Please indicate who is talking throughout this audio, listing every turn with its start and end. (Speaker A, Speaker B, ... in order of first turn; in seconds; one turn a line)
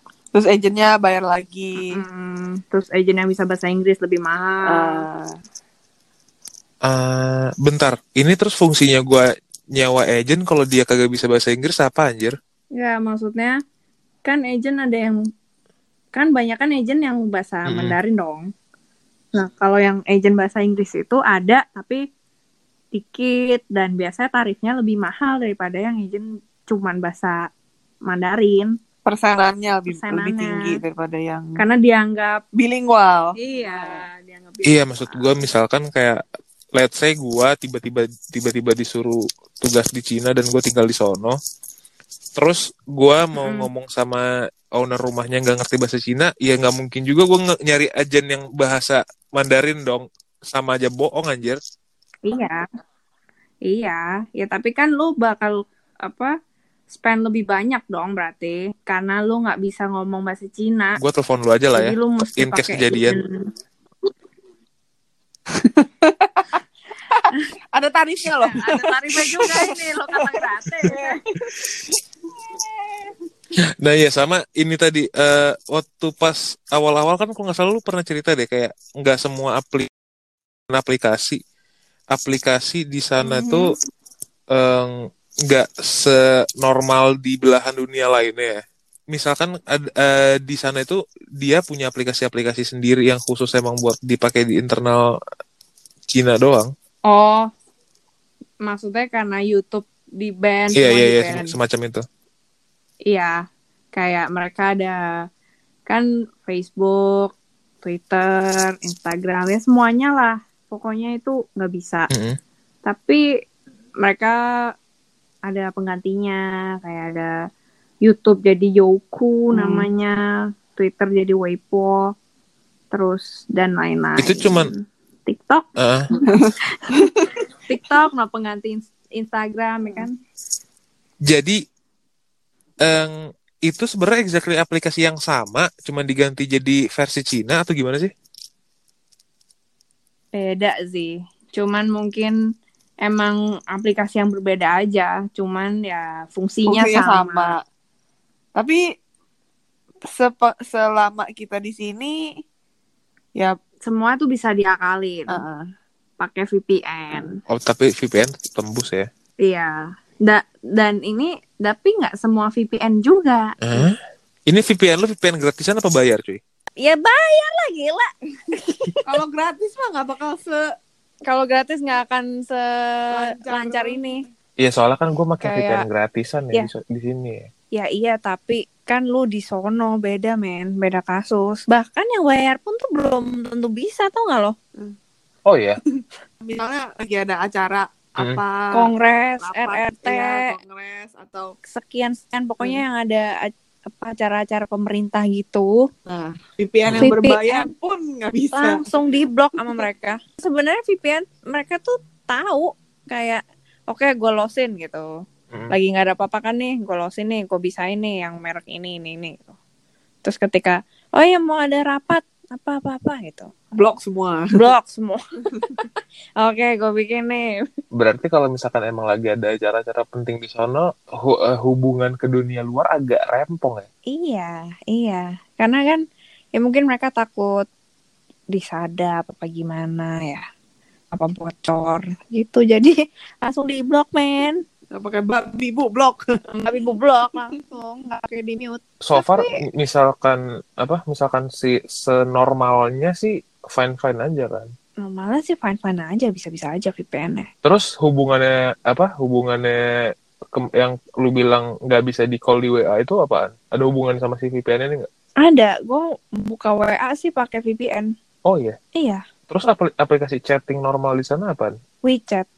Speaker A: 0.3-1.9
Speaker B: 1.8-5.0
Speaker A: 4.7-5.3
Speaker C: 6.8-12.3
Speaker B: 12.8-13.6
Speaker B: 14.2-15.2
Speaker B: 16.1-18.5
Speaker C: 17.7-17.9
Speaker B: 19.3-22.0
Speaker B: 22.9-27.5
Speaker B: 28.1-28.7
Speaker A: 29.1-31.6
Speaker B: 29.9-30.8
Speaker B: 31.6-32.4
Speaker A: 32.5-34.0
Speaker B: 33.4-35.4
Speaker C: 34.6-36.2
Speaker C: 36.7-41.4
Speaker C: 42.4-51.6
Speaker B: 43.4-43.7
Speaker B: 52.2-52.6
Speaker B: 53.6-56.4
Speaker B: 56.9-61.0
Speaker C: 61.0-63.2
Speaker B: 61.7-63.5
Speaker A: 65.5-73.1
Speaker B: 68.4-71.2
Speaker C: 73.8-79.9
Speaker C: 80.7-81.4
Speaker C: 82.1-83.7
Speaker B: 83.2-83.7
Speaker C: 84.5-95.1
Speaker C: 96.1-96.7
Speaker B: 97.0-97.5
Speaker B: 98.6-101.5
Speaker C: 100.7-102.0
Speaker B: 103.1-105.2
Speaker B: 105.9-112.1
Speaker C: 112.1-112.4
Speaker B: 112.8-113.2
Speaker B: 114.0-114.7
Speaker B: 115.4-117.5
Speaker B: 118.0-122.1
Speaker A: 119.5-119.9
Speaker B: 122.9-125.7
Speaker C: 124.2-124.7
Speaker C: 125.8-126.1
Speaker A: 126.3-127.3
Speaker B: 126.7-127.0
Speaker B: 127.7-130.2
Speaker C: 131.3-131.6
Speaker C: 132.8-138.1
Speaker B: 140.3-142.3
Speaker B: 143.0-147.5
Speaker A: 146.7-147.6
Speaker A: 148.6-148.8
Speaker A: 150.0-152.3
Speaker B: 153.8-155.4
Speaker A: 155.3-155.7
Speaker B: 156.2-157.4
Speaker C: 157.5-159.1
Speaker B: 159.4-163.9
Speaker C: 163.6-163.9
Speaker C: 164.5-166.4
Speaker B: 166.8-169.0
Speaker A: 169.0-170.7
Speaker B: 171.2-174.2
Speaker A: 173.1-174.1
Speaker C: 174.6-177.5
Speaker B: 175.4-175.8
Speaker B: 177.7-184.6
Speaker C: 185.4-185.8
Speaker A: 185.9-188.9
Speaker B: 188.7-190.5
Speaker A: 189.4-191.6
Speaker B: 191.7-195.9
Speaker A: 196.1-198.9
Speaker B: 196.9-197.7
Speaker B: 198.5-209.5
Speaker B: 210.2-213.5
Speaker A: 213.7-214.7
Speaker B: 214.5-215.9
Speaker B: 216.4-217.7
Speaker C: 217.9-223.9
Speaker B: 224.1-226.0
Speaker B: 226.5-227.7
Speaker B: 228.5-230.4
Speaker B: 231.1-234.6
Speaker A: 234.9-236.4
Speaker B: 236.6-239.5
Speaker C: 239.0-244.7
Speaker B: 245.0-247.5
Speaker C: 247.6-249.8
Speaker C: 250.5-255.1
Speaker B: 255.4-258.1
Speaker C: 258.4-258.8
Speaker B: 258.9-259.2
Speaker C: 259.5-261.8
Speaker B: 262.0-262.5